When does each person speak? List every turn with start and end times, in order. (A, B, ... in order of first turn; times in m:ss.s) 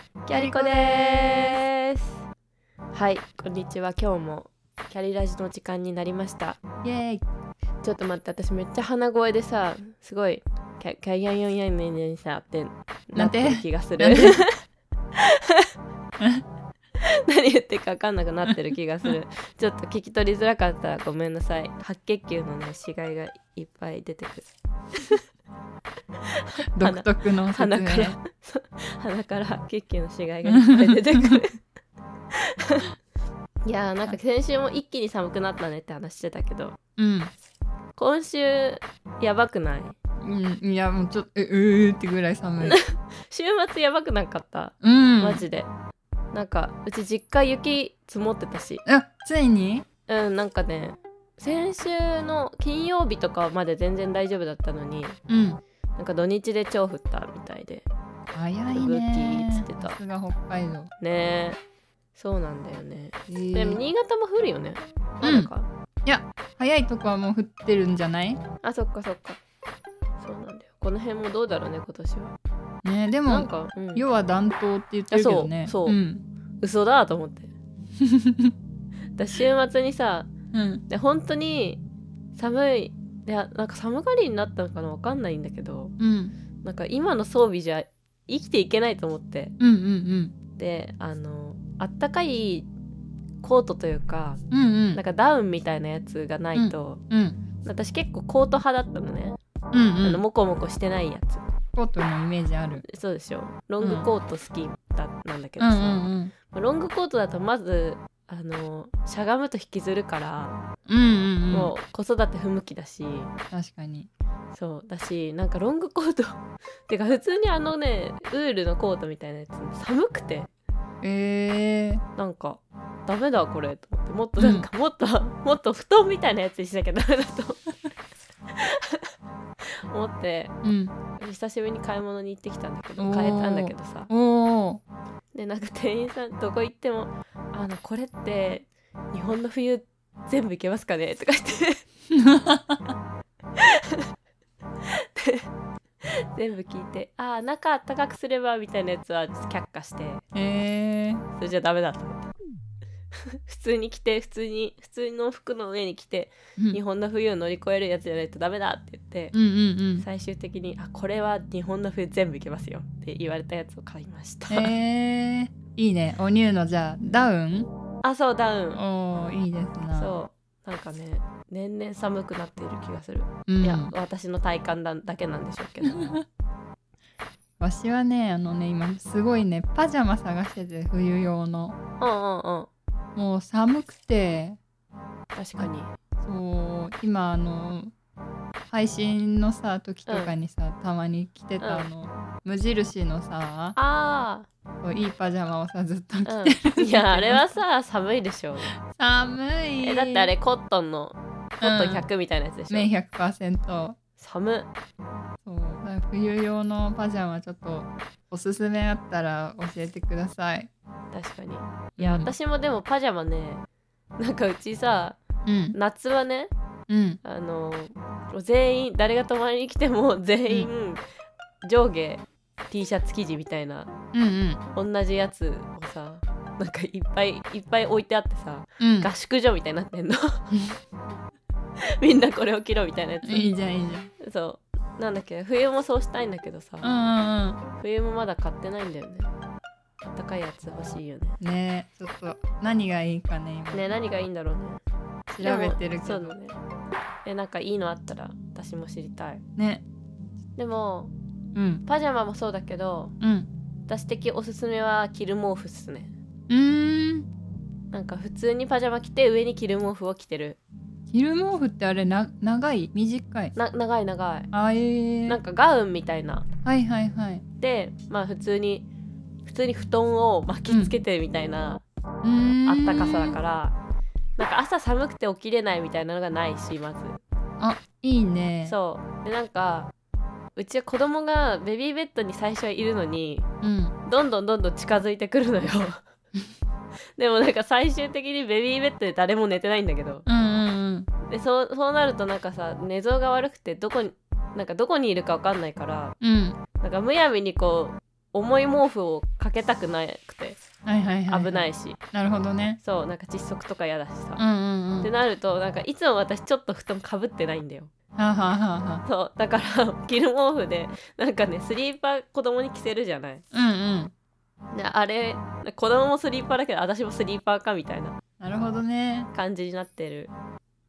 0:00.2-0:02.2 A
0:00.3-0:01.6 B
0:02.9-0:06.6 A
0:06.8-0:07.2 B
0:07.8-0:14.6 A
0:13.2-0:14.4 B
0:15.1-0:15.7 A
0:17.0-0:25.2 A
0:26.2-0:31.6 A
0:26.7-0:28.2 B
0:30.5-0:31.4 B
0:32.3-0:32.9 A
0:33.6-0:36.8 A
0:37.0-0:37.3 B
0:38.0-0:40.0 A
0:40.2-0:42.8 B
0:42.6-0:45.7 A
0:44.8-0:45.4 B
0:46.3-0:48.8 A
0:48.8-0:49.8 B
0:50.1-0:55.2 A
0:55.3-0:55.6 B
0:56.0-0:57.9 A
0:58.3-1:00.9 B
0:58.7-1:00.0 A
1:01.0-1:01.6 A
1:02.1-1:05.7 A
1:03.3-1:03.8 B
1:05.2-1:05.5 B
1:06.0-1:08.4 B
1:08.6-1:09.4 A
1:10.2-1:12.3 A
1:12.8-1:16.2 B
1:13.3-1:14.0 A
1:15.1-1:16.0 A
1:16.6-1:17.5 A
1:18.0-1:18.5 B
1:19.2-1:20.3 A
1:20.5-1:20.8 B
1:20.9-1:21.8 A
1:22.3-1:25.9 A
1:26.0-1:26.3 B
1:26.6-1:29.5 A
1:29.6-1:30.3 B
1:30.6-1:32.7 A
1:33.4-1:34.4 A
1:34.5-1:35.0 B
1:34.9-1:37.0 A
1:36.6-1:37.4 B
1:37.6-1:39.4 A
1:39.7-1:40.2 B
1:40.0-1:41.4 A
1:41.8-1:42.8 B
1:42.9-1:50.6 A
1:43.8-1:44.1 B
1:45.6-1:46.3 B
1:50.9-1:51.7 B
1:51.5-1:53.3 A
1:53.5-1:54.1 B
1:54.5-2:00.5 A
2:01.0-2:02.0 B
2:02.2-2:07.7 A
2:04.4-2:04.7 B
2:08.5-2:09.1 A
2:09.9-2:10.5 A
2:10.6-2:10.9 B
2:11.2-2:14.1 A
2:13.0-2:14.8 B
2:15.3-2:21.8 A
2:22.1-2:22.9 B
2:23.6-2:24.0 A
2:24.9-2:25.5 A
2:26.3-2:30.2 A
2:30.3-2:31.2 B
2:31.4-2:32.3 A
2:33.3-2:39.3 A
2:39.3-2:40.0 B
2:40.0-2:44.7 A
2:44.5-2:47.7 B
2:48.0-2:48.8 A
2:48.8-2:50.1 B
2:49.9-2:56.1 A
2:53.5-2:53.9 B
2:55.9-2:56.2 B
2:57.6-3:01.8 B
3:02.0-3:02.7 A
3:03.2-3:04.6 B
3:05.3-3:05.9 A
3:06.2-3:07.9 B
3:08.7-3:13.7 B
3:10.1-3:10.3 A
3:11.6-3:11.9 A
3:13.8-3:14.5 A
3:14.8-3:17.5 B
3:16.2-3:18.7 A
3:18.9-3:20.3 B
3:19.8-3:22.9 A
3:21.6-3:22.0 B
3:22.7-3:24.0 B
3:24.2-3:24.7 A
3:25.4-3:30.7 B
3:31.1-3:33.6 A
3:32.0-3:32.3 B
3:34.2-3:35.2 A
3:35.4-3:35.8 B
3:35.7-3:36.5 A
3:36.9-3:37.2 B
3:37.2-3:41.0 A
3:41.6-3:43.9 A
3:44.1-3:44.6 B
3:44.7-3:50.4 A
3:48.8-3:49.1 B
3:52.0-3:53.5 A
3:53.2-3:54.1 B
3:54.2-3:56.9 A
3:56.8-3:57.6 B
3:57.8-3:59.3 A
4:00.0-4:01.4 A
4:01.4-4:03.9 B
4:03.7-4:04.8 A
4:05.3-4:06.4 B
4:05.4-4:06.6 A
4:07.2-4:09.4 A
4:09.6-4:09.8 B
4:10.6-4:11.1 A
4:11.5-4:11.8 B
4:11.8-4:13.1 A
4:13.2-4:13.5 B
4:13.9-4:16.1 A
4:16.5-4:17.3 B
4:17.9-4:20.6 A
4:21.1-4:23.5 B
4:23.5-4:24.5 A
4:24.5-4:25.4 B
4:25.3-4:26.5 A
4:26.6-4:27.4 B
4:27.6-4:28.9 A
4:29.4-4:31.8 A
4:32.2-4:33.3 B
4:32.6-4:33.7 A
4:34.4-4:37.2 A
4:37.6-4:38.8 B
4:38.6-4:39.9 A
4:40.6-4:43.5 A
4:43.6-4:43.9 B
4:44.0-4:46.0 A
4:47.2-4:50.2 A
4:50.2-4:51.1 B
4:51.2-4:56.1 A
4:56.2-4:56.6 B
4:56.8-5:00.6 A
5:00.8-5:02.8 B
5:01.3-5:02.0 A
5:02.8-5:04.4 A
5:04.4-5:05.1 B
5:05.0-5:07.9 A
5:08.2-5:09.0 B
5:09.0-5:13.4 A
5:13.5-5:14.1 B
5:14.7-5:18.2 A
5:18.4-5:19.3 B
5:19.3-5:20.3 A